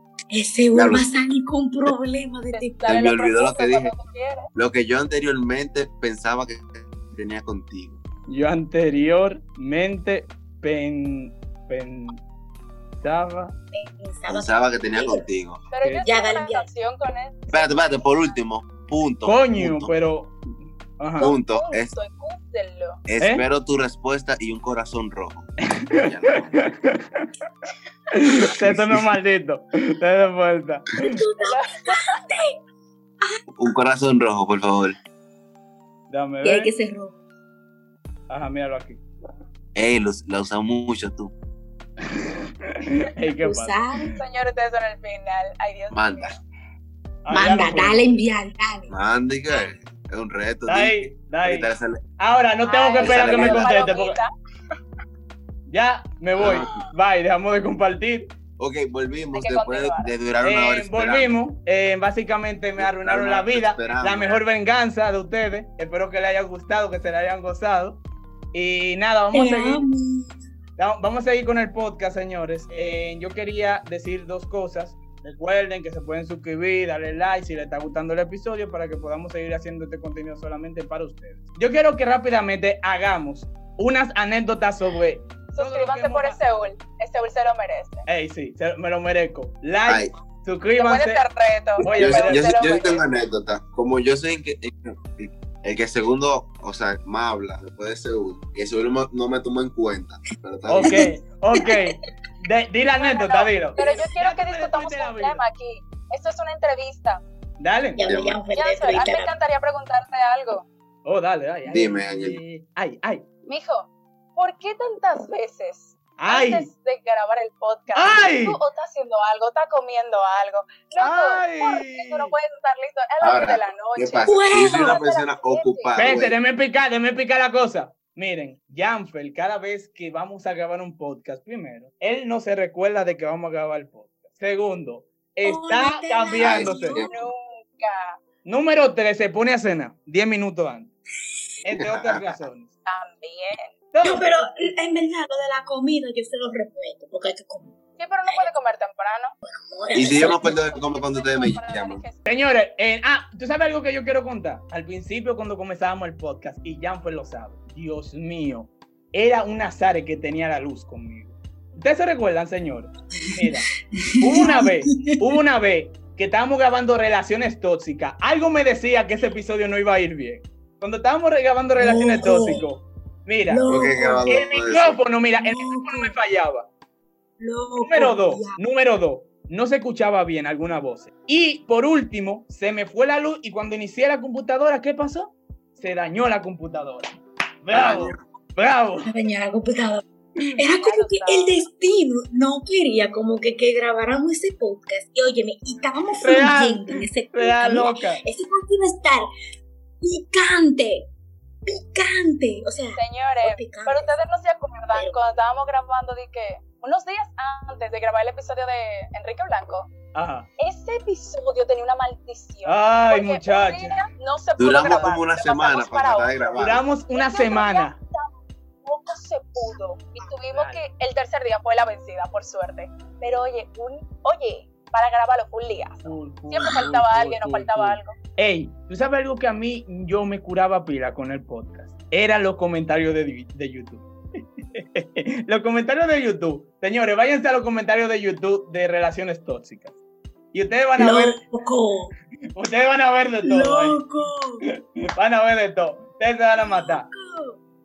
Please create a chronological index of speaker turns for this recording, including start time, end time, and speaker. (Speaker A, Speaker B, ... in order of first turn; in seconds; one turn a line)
Speaker A: 0.3-2.9
Speaker B: 0.7-1.0
Speaker C: 2.5-4.5
Speaker B: 2.9-3.9
Speaker B: 4.5-8.0
Speaker D: 8.3-12.2
Speaker D: 13.0-13.5
Speaker A: 13.7-15.2
Speaker B: 14.3-15.6
Speaker C: 15.7-17.8
Speaker A: 16.0-16.7
Speaker B: 17.5-19.9
Speaker D: 19.2-20.4
Speaker D: 21.0-21.4
Speaker B: 21.2-21.9
Speaker C: 21.5-23.0
Speaker B: 23.1-26.7
Speaker D: 25.8-27.3
Speaker D: 28.1-31.2
Speaker B: 28.4-29.1
Speaker A: 31.0-32.5
Speaker C: 31.4-31.9
Speaker B: 33.5-35.0
Speaker D: 36.1-36.7
Speaker A: 36.4-37.2
Speaker D: 38.3-39.0
Speaker B: 39.7-41.3
Speaker D: 42.0-44.2
Speaker A: 43.4-44.1
Speaker C: 44.2-46.3
Speaker B: 45.9-46.4
Speaker D: 47.2-48.0
Speaker A: 47.3-48.9
Speaker B: 48.9-52.0
Speaker D: 50.6-54.2
Speaker C: 52.6-54.3
Speaker B: 53.0-53.7
Speaker D: 55.7-58.3
Speaker B: 56.4-56.9
Speaker B: 58.6-61.3
Speaker C: 59.3-60.1
Speaker D: 60.4-68.0
Speaker B: 62.8-64.4
Speaker D: 68.5-69.8
Speaker A: 69.3-70.3
Speaker D: 70.8-86.4
Speaker C: 85.5-88.0
Speaker D: 88.1-91.2
Speaker C: 90.8-93.0
Speaker D: 91.8-92.5
Speaker B: 91.8-101.0
Speaker D: 100.7-105.4
Speaker A: 101.6-102.0
Speaker C: 103.0-107.2
Speaker A: 103.8-104.1
Speaker D: 107.6-108.0
Speaker A: 108.0-109.3
Speaker B: 108.0-108.4
Speaker C: 108.5-110.7
Speaker D: 111.0-113.2
Speaker B: 111.7-112.4
Speaker C: 113.5-125.9
Speaker D: 116.2-116.7
Speaker D: 117.9-118.6
Speaker D: 121.0-122.3
Speaker B: 123.2-126.3
Speaker A: 124.2-125.0
Speaker D: 125.9-137.0
Speaker A: 135.4-137.3
Speaker B: 136.4-137.2
Speaker C: 137.0-138.2
Speaker D: 138.4-140.9
Speaker D: 141.6-142.7
Speaker B: 141.7-142.3
Speaker C: 142.8-143.7
Speaker D: 143.9-144.7
Speaker A: 144.0-147.8
Speaker C: 148.0-149.3
Speaker A: 149.4-150.7
Speaker B: 149.9-152.1
Speaker C: 150.2-152.3
Speaker D: 152.2-163.7
Speaker A: 163.9-165.2
Speaker D: 164.2-173.6
Speaker A: 171.8-172.7
Speaker A: 173.5-174.3
Speaker B: 173.7-175.0
Speaker D: 174.2-176.7
Speaker A: 175.4-176.2
Speaker A: 177.4-178.6
Speaker D: 177.8-187.1
Speaker D: 187.6-189.1
Speaker B: 187.7-188.2
Speaker A: 189.0-199.3
Speaker C: 190.6-191.6
Speaker D: 196.2-198.2
Speaker A: 200.0-201.1
Speaker A: 201.6-204.2
Speaker C: 202.9-209.9
Speaker D: 210.1-210.5
Speaker C: 210.6-216.6
Speaker D: 212.6-214.0
Speaker B: 214.6-216.8
Speaker D: 216.6-218.0
Speaker C: 217.1-218.3
Speaker C: 218.8-228.2
Speaker D: 220.5-220.8
Speaker D: 226.0-234.1
Speaker A: 226.6-226.9
Speaker D: 234.7-240.0
Speaker D: 240.5-241.4
Speaker A: 241.0-242.1
Speaker D: 242.6-244.0
Speaker A: 243.4-244.6
Speaker D: 245.2-247.1
Speaker A: 246.5-247.6